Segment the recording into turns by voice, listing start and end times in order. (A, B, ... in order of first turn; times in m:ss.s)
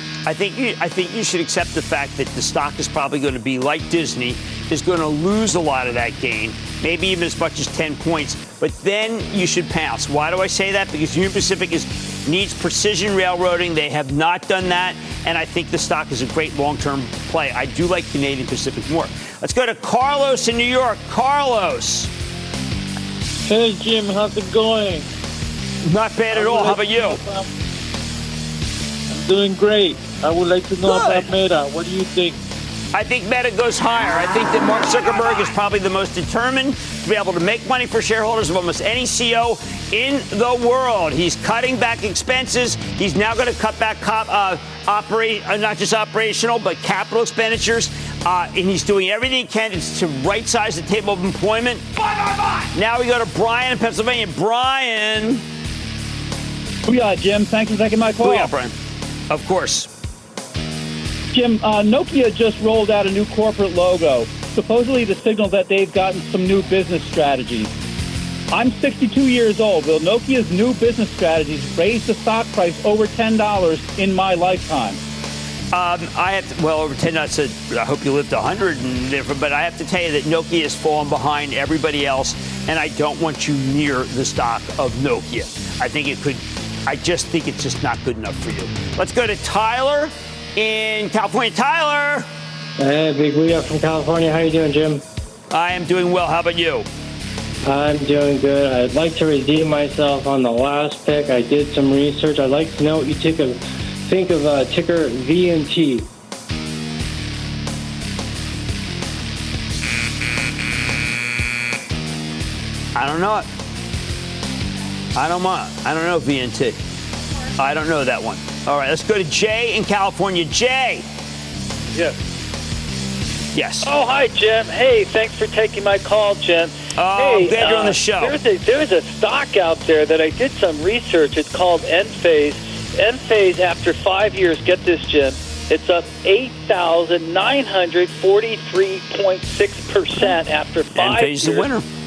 0:00.3-0:22.1 A
0:23.5-0:25.0 B
0:25.8-0:27.2 A
0:26.3-0:27.4 B
0:29.3-0:32.2 B
0:30.8-0:31.3 A
0:32.9-0:51.9 A
0:52.7-0:55.4 A
0:56.9-0:58.6 C
0:58.2-0:58.7 A
0:59.3-0:59.9 A
1:01.3-1:07.7 C
1:08.5-1:15.0 C
1:15.7-1:32.3 A
1:32.8-1:35.0 D
1:35.5-1:36.9 A
1:37.6-1:46.0 D
1:52.9-1:53.5 A
1:55.1-1:56.8 A
1:57.6-2:01.0 A
2:03.5-2:03.9 A
2:03.8-2:21.7 E
2:07.0-2:08.4 A
2:20.9-2:21.9 A